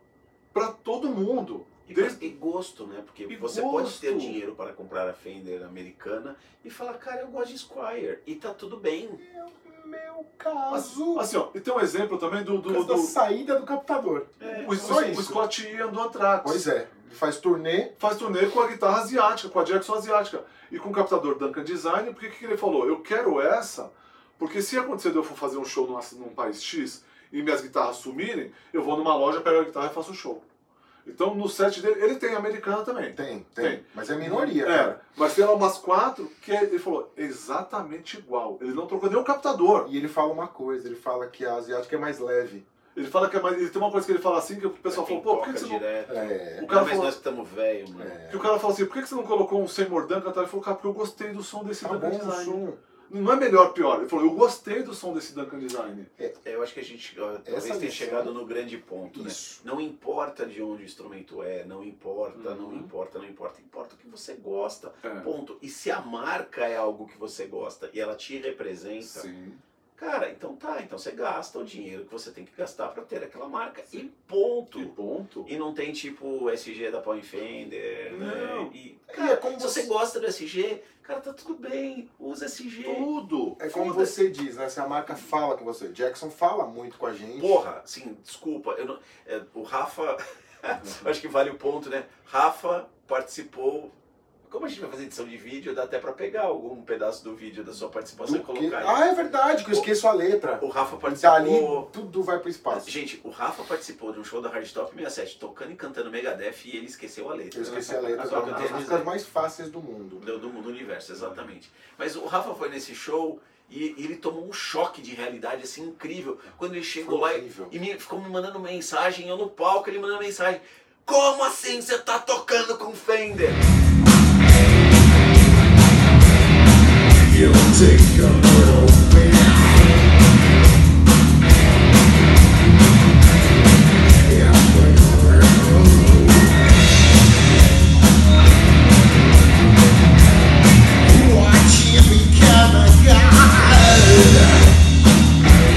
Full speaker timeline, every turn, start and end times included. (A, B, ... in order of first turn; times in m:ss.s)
0:00.5-0:02.3 A
0:01.9-0:09.2 B
0:03.3-0:04.4 A
0:09.2-0:11.3 C
0:10.7-0:13.2 A
0:12.6-0:15.4 C
0:14.4-0:15.2 B
0:14.4-0:16.7 A
0:16.4-0:17.9 C
0:18.0-0:30.4 A
0:31.0-0:39.9 A
0:33.2-0:35.0 C
0:39.8-0:42.6 C
0:43.0-0:45.8 A
0:44.9-0:48.2 B
0:46.1-0:46.7 C
0:46.6-0:47.2 A
0:48.0-0:48.5 C
0:48.3-0:56.1 A
0:51.8-0:52.8 C
0:56.4-1:09.3 B
0:57.5-0:58.3 C
0:59.1-0:59.6 C
1:02.3-1:02.9 A
1:05.0-1:05.3 A
1:09.0-1:09.6 A
1:10.0-1:14.9 B
1:14.7-1:15.5 A
1:15.5-1:23.1 B
1:18.1-1:18.8 A
1:19.1-1:19.9 C
1:22.8-1:23.6 A
1:23.6-1:27.6 C
1:23.7-1:24.2 B
1:27.4-1:33.9 B
1:34.5-1:39.0 B
1:38.2-1:42.9 C
1:40.6-1:41.9 B
1:42.7-1:49.1 B
1:47.5-1:50.2 C
1:48.2-1:48.8 A
1:50.2-2:03.6 B
1:51.2-1:51.4 A
1:57.0-1:57.7 C
2:07.2-2:09.7 C
2:14.2-2:16.4 C
2:21.0-2:24.6 C